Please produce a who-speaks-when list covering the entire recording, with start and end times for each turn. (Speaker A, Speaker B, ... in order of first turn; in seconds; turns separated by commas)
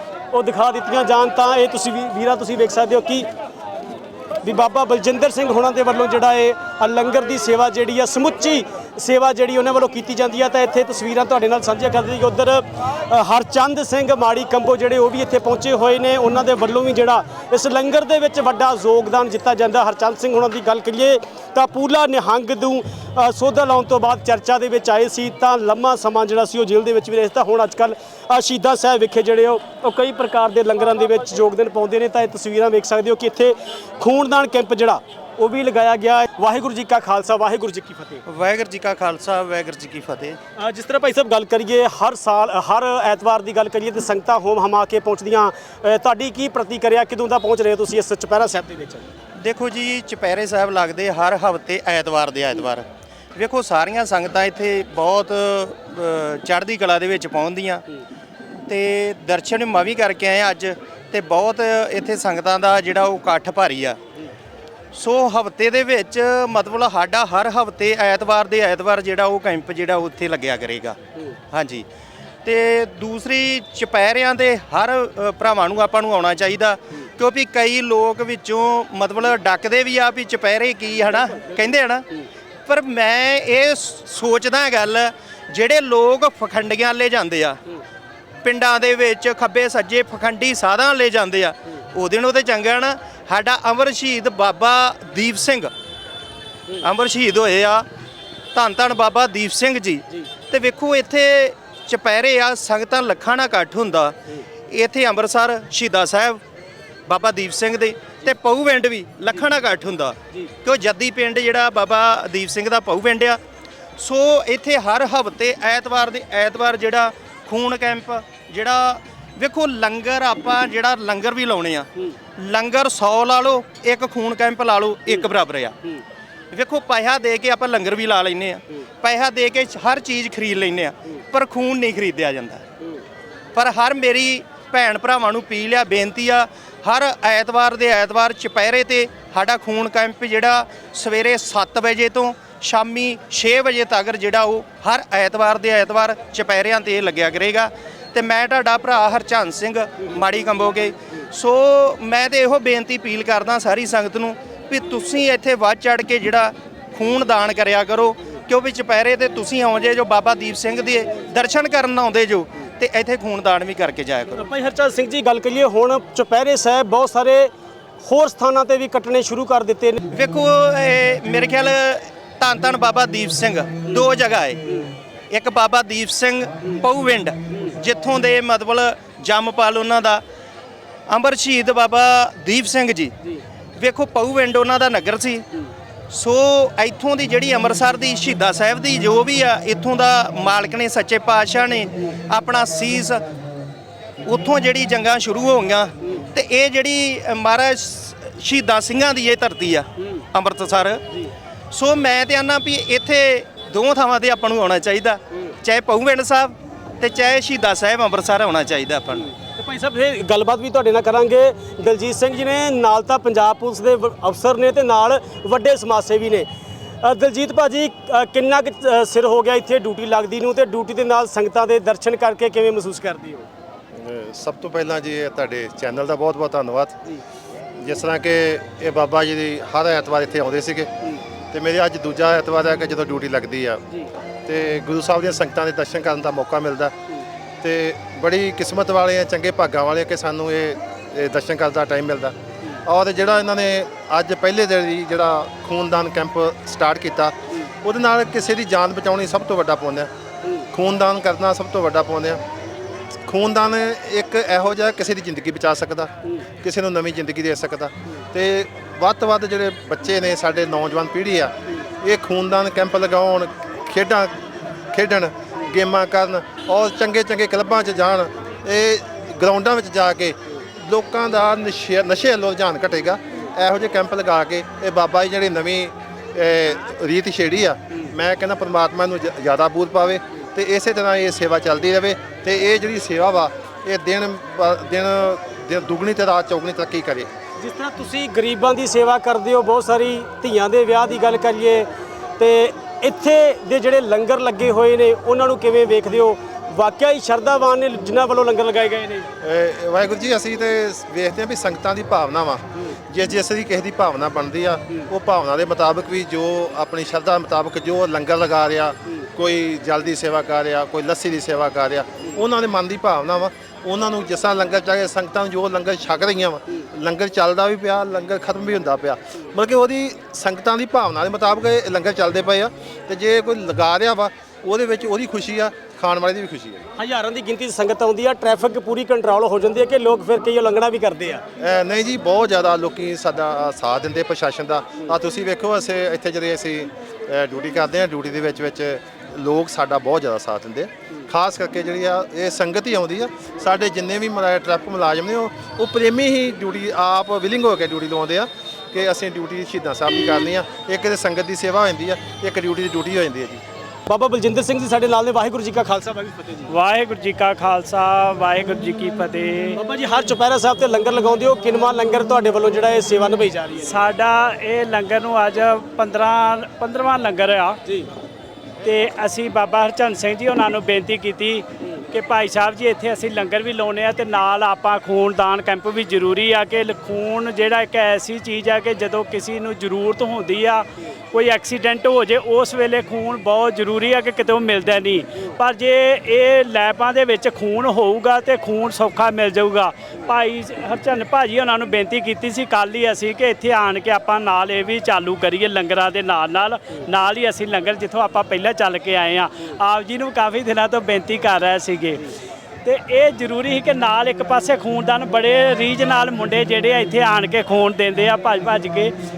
Speaker A: 0.3-3.3, Speaker A: 4.4-38.2, Speaker B: 38.3-40.4, Speaker A: 40.6-49.1, Speaker B: 49.4-57.9, Speaker B: 58.7-64.0, Speaker B: 64.9-71.0, Speaker B: 71.5-71.9, Speaker B: 72.5-82.1, Speaker B: 82.7-87.6, Speaker B: 88.4-95.7, Speaker B: 96.8-97.9, Speaker B: 98.5-104.2, Speaker B: 104.7-106.4, Speaker B: 107.1-113.4, Speaker B: 114.0-126.0, Speaker B: 126.5-132.7, Speaker B: 133.6-164.4, Speaker A: 164.4-170.0, Speaker B: 170.1-180.2, Speaker B: 181.1-183.2, Speaker B: 183.8-185.5, Speaker B: 186.1-193.2, Speaker B: 194.2-201.0, Speaker B: 201.7-209.3, Speaker A: 209.5-216.5, Speaker A: 217.0-223.5, Speaker C: 223.9-227.0, Speaker C: 227.8-230.9, Speaker C: 231.5-233.8, Speaker C: 234.5-236.9, Speaker C: 237.6-250.1, Speaker C: 250.7-252.4, Speaker C: 253.3-264.4, Speaker C: 264.9-287.3, Speaker A: 287.6-299.3, Speaker C: 299.4-326.8, Speaker A: 327.0-331.4, Speaker C: 331.6-353.6, Speaker A: 354.1-356.7, Speaker D: 356.7-359.8, Speaker A: 359.8-364.0, Speaker D: 363.8-367.8, Speaker D: 368.8-402.3, Speaker D: 402.9-409.1